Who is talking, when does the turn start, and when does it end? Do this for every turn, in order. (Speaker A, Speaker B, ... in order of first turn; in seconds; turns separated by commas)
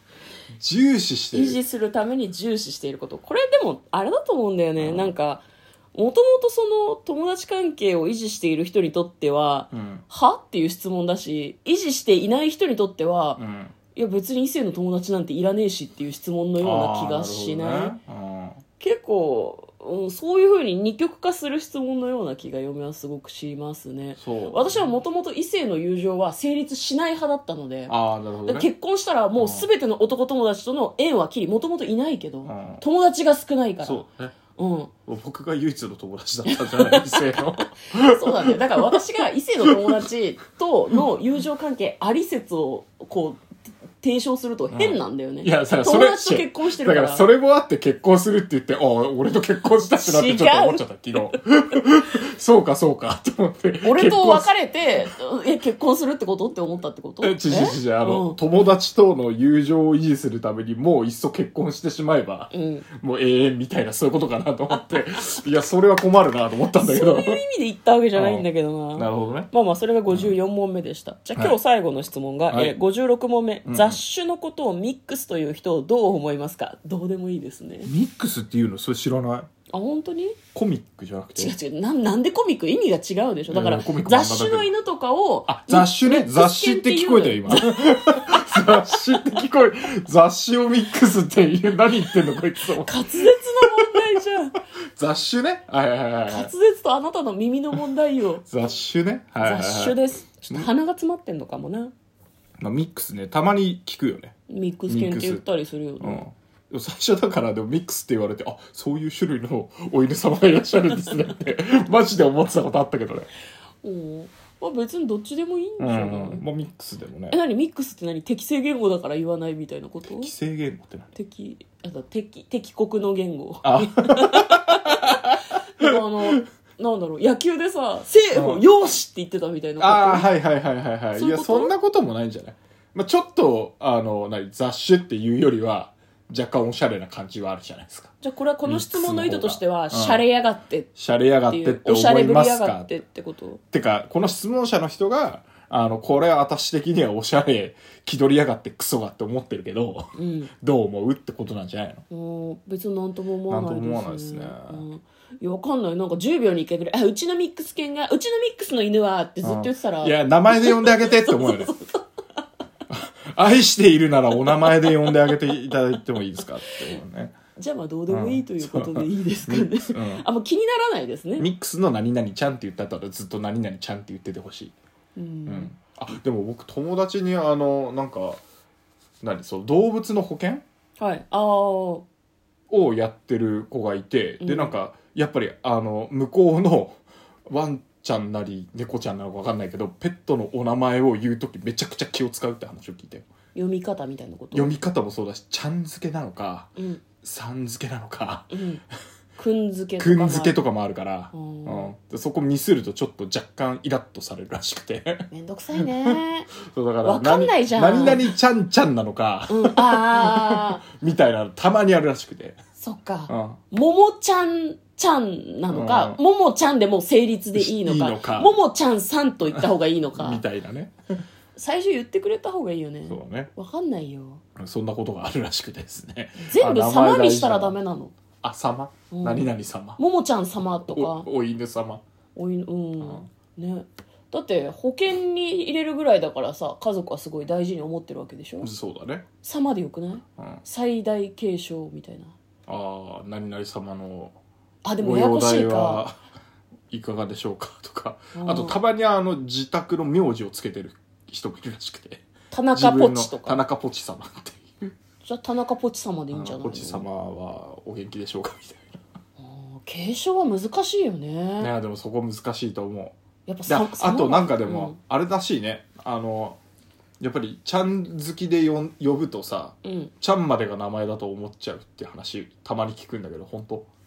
Speaker A: 0.5-1.6, Speaker B: 1.3-13.4, Speaker A: 4.8-5.1, Speaker A: 9.7-10.0, Speaker A: 13.4-13.8, Speaker B: 13.9-18.0, Speaker A: 16.6-18.6, Speaker B: 18.8-34.0, Speaker A: 24.2-24.9, Speaker A: 27.9-28.7, Speaker A: 29.4-29.7, Speaker A: 32.5-32.8, Speaker A: 33.8-34.3, Speaker B: 34.5-34.9, Speaker A: 35.1-39.0, Speaker B: 36.5-43.5, Speaker A: 39.6-40.0, Speaker B: 44.0-47.3, Speaker A: 44.7-54.5, Speaker B: 49.9-51.3, Speaker B: 53.8-58.4, Speaker A: 57.2-67.4, Speaker B: 62.5-62.9, Speaker B: 66.8-77.9, Speaker A: 68.2-69.5, Speaker A: 70.1-70.3, Speaker A: 72.5-72.8, Speaker A: 73.7-74.0, Speaker A: 77.8-79.5, Speaker B: 79.7-80.4, Speaker A: 80.5-81.5, Speaker B: 81.4-89.0, Speaker A: 83.5-84.7, Speaker A: 85.5-93.0, Speaker B: 92.8-94.6, Speaker A: 93.6-94.0, Speaker A: 95.0-96.5, Speaker B: 96.3-98.4, Speaker A: 98.5-100.0, Speaker B: 99.4-101.9, Speaker A: 102.6-104.3, Speaker B: 104.5-106.2, Speaker A: 104.9-105.4, Speaker A: 106.0-113.3, Speaker B: 113.8-116.4, Speaker A: 115.8-117.4, Speaker B: 117.3-120.3, Speaker A: 120.1-121.1, Speaker B: 121.1-125.2, Speaker A: 123.6-126.4, Speaker B: 125.8-130.3, Speaker A: 128.3-128.7, Speaker A: 129.8-138.1, Speaker B: 131.2-131.7, Speaker B: 138.2-141.0, Speaker A: 138.7-140.2, Speaker A: 141.0-143.0, Speaker B: 141.5-143.6, Speaker A: 143.7-152.0, Speaker B: 150.2-150.5, Speaker B: 152.1-162.0, Speaker A: 153.5-154.9, Speaker A: 159.4-161.8, Speaker A: 162.9-167.3, Speaker B: 164.5-165.1, Speaker B: 167.6-171.5, Speaker A: 168.1-170.2, Speaker A: 171.4-174.7, Speaker B: 175.2-175.7, Speaker A: 175.5-178.4, Speaker A: 179.2-180.6, Speaker B: 181.0-182.1, Speaker A: 182.7-193.2, Speaker B: 184.4-184.8, Speaker B: 193.6-194.7, Speaker A: 194.5-198.5, Speaker B: 196.8-197.0, Speaker B: 198.5-198.8, Speaker B: 199.4-200.6, Speaker A: 200.0-212.6, Speaker B: 201.3-201.9, Speaker B: 205.3-206.5, Speaker B: 207.0-208.3, Speaker B: 209.5-210.8, Speaker B: 212.8-220.4, Speaker A: 213.3-213.6, Speaker A: 215.7-216.2, Speaker A: 217.6-218.6, Speaker A: 220.2-220.9, Speaker B: 221.6-224.4, Speaker A: 223.1-223.5, Speaker A: 224.6-227.8, Speaker B: 226.4-228.1, Speaker A: 228.4-230.0, Speaker B: 229.1-231.3, Speaker A: 230.9-232.0, Speaker B: 232.4-238.7, Speaker A: 233.0-233.3, Speaker A: 238.6-239.3, Speaker B: 239.4-242.3, Speaker A: 242.7-244.4, Speaker B: 244.8-246.1, Speaker A: 245.0-246.2, Speaker A: 246.9-254.9, Speaker B: 248.3-248.8, Speaker B: 252.5-253.6, Speaker B: 255.2-257.1, Speaker A: 256.3-259.0, Speaker B: 259.4-261.7, Speaker A: 261.6-266.6, Speaker B: 263.5-265.0, Speaker A: 267.2-273.9, Speaker B: 269.8-270.1